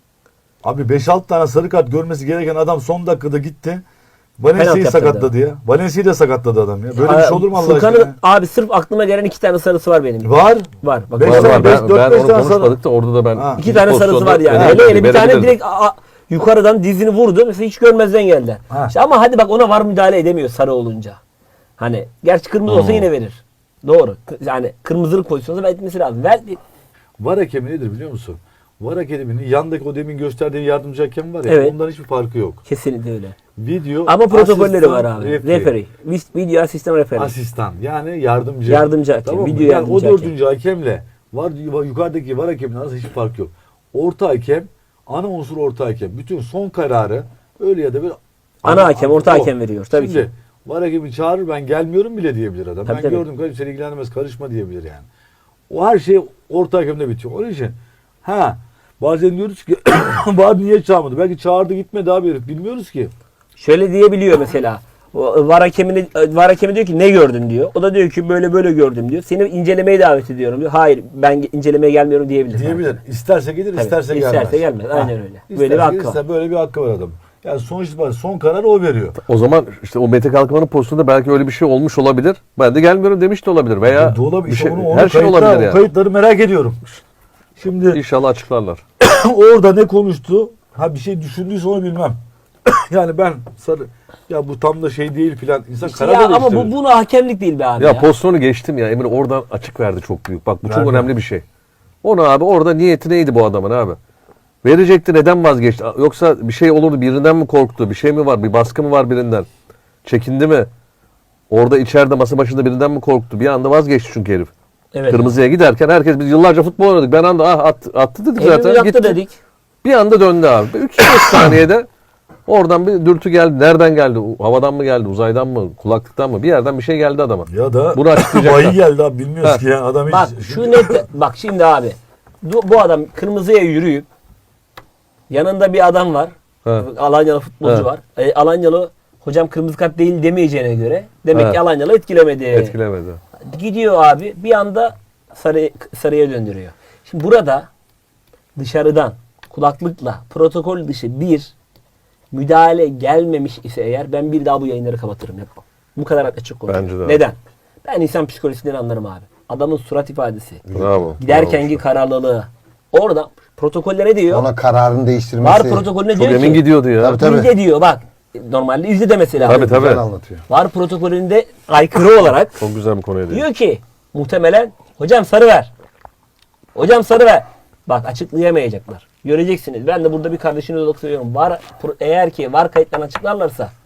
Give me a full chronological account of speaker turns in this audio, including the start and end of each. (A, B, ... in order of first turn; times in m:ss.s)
0:00.6-0:03.8 A
0:04.4-0:08.2 A
0:04.5-0:05.3 B
0:07.0-0:11.8 B
0:10.2-0:12.8 A
0:11.2-0:15.6 C
0:13.3-0:13.6 A
0:13.6-0:21.2 B
0:14.5-0:14.9 A
0:18.7-0:18.9 A
0:21.8-0:26.6 B
0:22.7-0:23.1 C
0:27.2-0:32.6 A
0:31.4-0:31.8 B
0:32.6-0:33.4 B
0:33.5-0:35.7 A
0:34.0-0:37.3 B
0:37.1-0:55.1 A
0:38.6-0:40.3 B
0:48.6-0:50.3 B
0:52.8-0:53.2 B
0:55.7-1:03.1 A
1:03.6-1:13.0 B
1:12.5-1:19.2 A
1:13.7-1:16.2 B
1:19.2-1:25.8 C
1:23.8-1:26.8 A
1:27.6-1:28.0 A
1:27.9-1:28.8 C
1:29.0-1:36.7 A
1:35.8-1:38.0 B
1:37.8-1:41.4 C
1:40.6-1:41.1 A
1:42.0-1:44.0 C
1:44.6-1:49.5 C
1:50.0-1:50.7 C
1:51.5-1:54.5 C
1:54.9-1:55.3 B
1:55.0-1:59.2 C
1:58.4-1:59.3 B
1:59.8-2:01.9 C
2:02.5-2:08.8 C
2:07.5-2:11.0 A
2:10.1-2:14.1 B
2:15.3-2:22.8 B
2:21.3-2:21.6 C
2:22.5-2:23.2 C
2:23.4-2:27.7 B
2:28.6-2:31.5 B
2:32.3-2:40.6 B
2:36.7-2:37.2 C
2:40.7-2:41.2 D
2:40.7-2:41.8 C
2:41.2-2:44.5 B
2:44.3-2:45.9 D
2:45.4-2:49.7 B
2:46.1-2:47.2 C
2:47.0-2:47.6 D
2:49.4-2:50.0 C
2:49.4-2:50.4 D
2:50.5-2:52.6 B
2:52.6-2:53.4 C
2:53.3-2:55.7 B
2:56.7-3:03.7 B